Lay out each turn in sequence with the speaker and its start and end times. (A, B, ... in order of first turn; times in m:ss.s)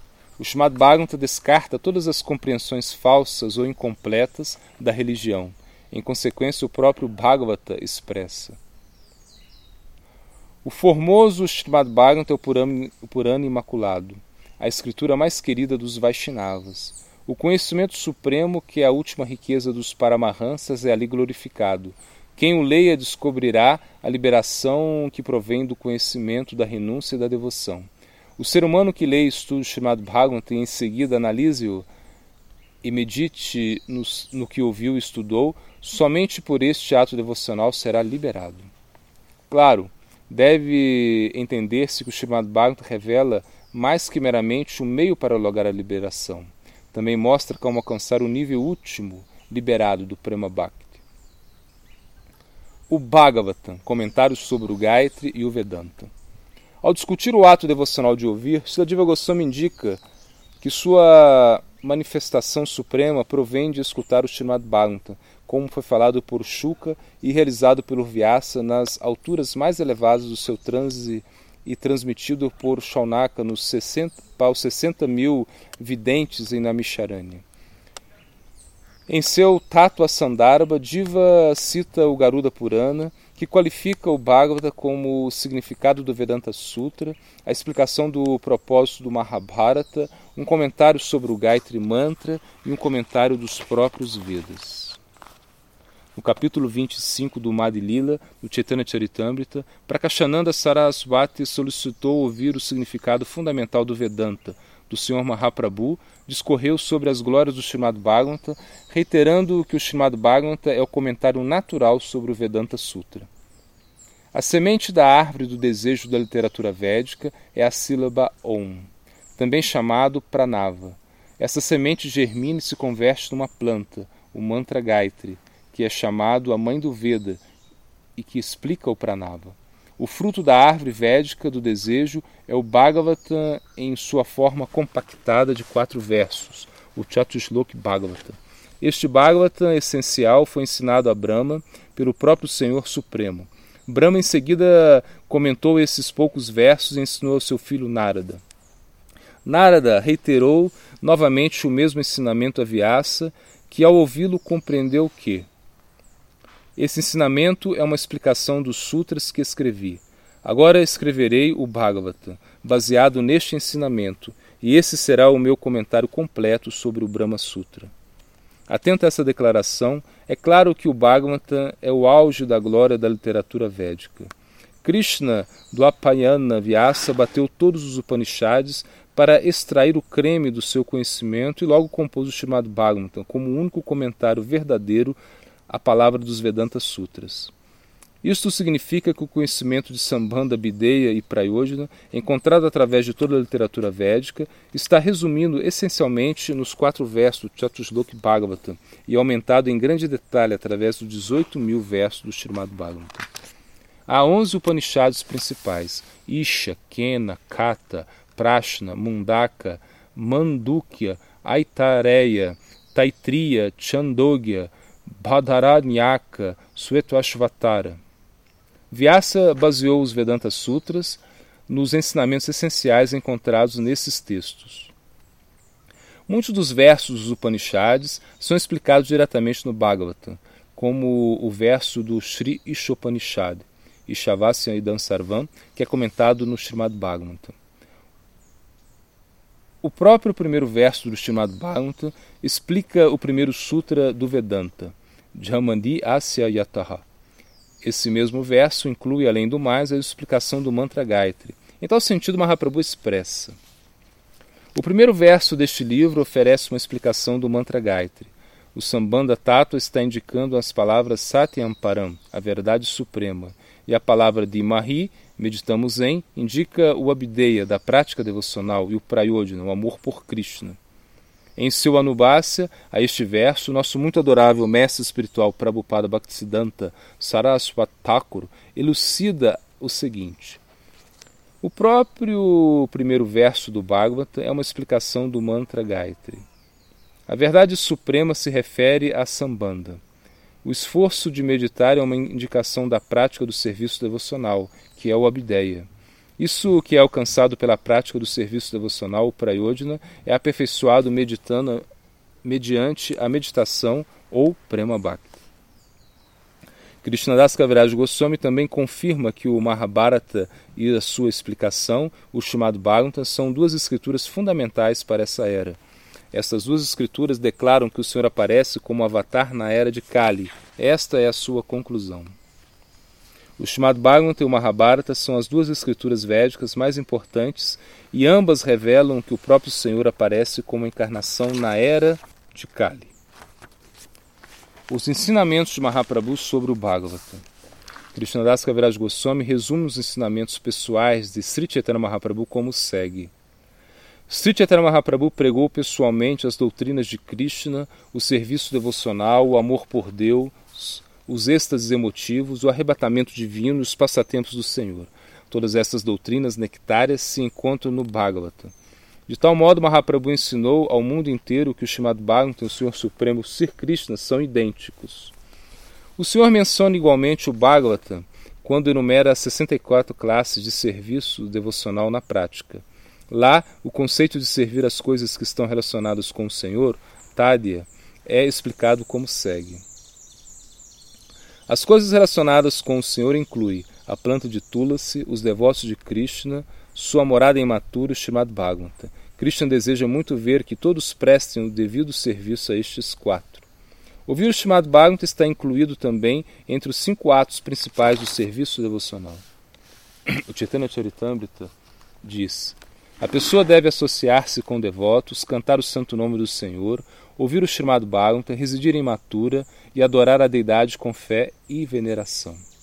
0:00.4-0:08.6 A
0:10.6-0:31.9 A
0:32.8-0:38.7 A
0:39.5-0:51.0 A
0:52.9-0:56.1 A
0:56.8-1:00.0 A
1:00.6-1:17.4 A
1:19.1-1:35.0 A
1:36.2-1:53.3 A
1:54.3-2:07.4 A
2:08.2-2:28.4 A
2:29.4-2:35.5 A
2:36.8-2:47.9 A
2:48.7-2:54.3 A
2:54.8-3:05.2 A
3:05.7-3:07.5 A
3:08.2-3:23.3 A
3:24.1-3:38.0 A
3:38.9-3:44.9 A
3:46.3-3:57.6 A
3:59.8-4:07.0 A
4:07.8-4:13.6 A
4:14.8-4:30.8 A
4:31.6-4:40.6 A
4:41.6-4:46.4 A
4:47.3-4:50.0 A
4:50.6-5:01.8 A
5:02.4-5:05.4 A
5:07.0-5:15.8 A
5:16.3-5:22.4 A
5:23.6-5:33.1 A
5:34.9-5:37.4 A
5:38.1-5:43.3 A
5:44.3-5:58.7 A
5:59.3-6:05.3 A
6:06.2-6:19.8 A
6:21.7-6:33.6 A
6:34.3-6:39.4 A
6:40.3-6:52.6 A